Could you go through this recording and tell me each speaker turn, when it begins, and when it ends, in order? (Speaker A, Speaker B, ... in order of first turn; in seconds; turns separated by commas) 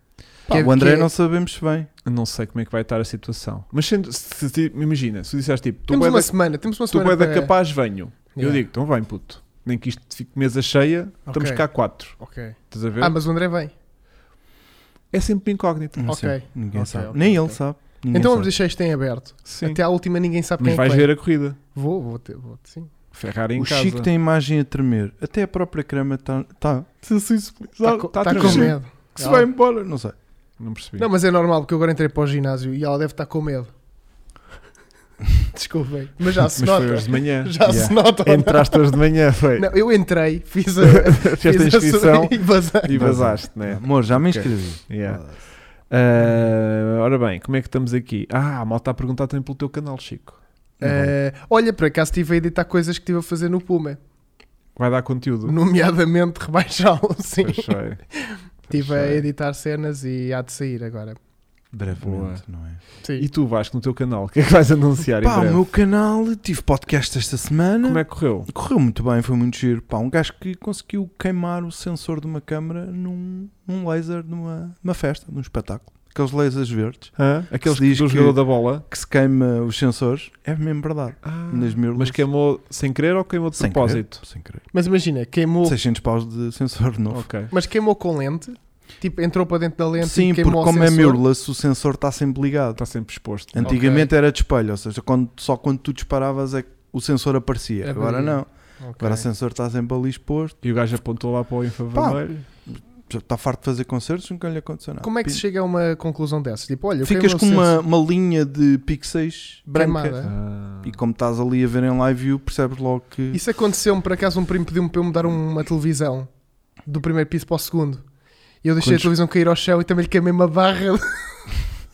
Speaker A: 0.5-1.1, Speaker B: 0.5-1.9, Speaker C: 2.0-13.2, Speaker A: 5.9-7.6, Speaker A: 8.3-8.6, Speaker A: 11.3-13.7, Speaker C: 15.1-16.0, Speaker B: 16.0-18.5, Speaker A: 16.1-22.9, Speaker C: 19.5-19.8, Speaker C: 20.6-21.6, Speaker C: 23.1-24.1, Speaker B: 23.6-30.1, Speaker A: 27.8-29.5, Speaker C: 28.1-28.8, Speaker C: 30.6-31.1, Speaker A: 31.0-33.7, Speaker A: 35.5-39.0, Speaker C: 36.6-39.7, Speaker B: 37.6-38.0, Speaker A: 39.6-43.2, Speaker C: 40.9-50.4, Speaker B: 42.9-45.4, Speaker B: 50.8-51.1, Speaker A: 50.8-54.0, Speaker C: 54.8-55.5, Speaker A: 55.5-61.2, Speaker C: 57.4-58.0, Speaker C: 58.7-59.3, Speaker B: 61.7-62.8, Speaker C: 62.0-65.6, Speaker B: 65.2-82.2, Speaker C: 67.8-68.5, Speaker C: 77.2-78.8, Speaker C: 81.2-84.2, Speaker B: 83.6-84.7, Speaker A: 84.7-85.8, Speaker B: 85.7-87.3, Speaker C: 87.1-87.5, Speaker A: 87.5-91.2, Speaker B: 90.0-92.8, Speaker C: 92.8-93.8, Speaker B: 93.5-100.6, Speaker A: 93.6-94.1, Speaker A: 97.8-99.2, Speaker C: 100.6-102.4, Speaker B: 101.9-105.4, Speaker A: 105.0-107.8, Speaker B: 107.0-110.2, Speaker A: 109.7-110.3, Speaker C: 110.2-111.0, Speaker B: 110.8-113.4, Speaker A: 113.3-116.3, Speaker A: 116.8-118.1, Speaker A: 118.6-121.5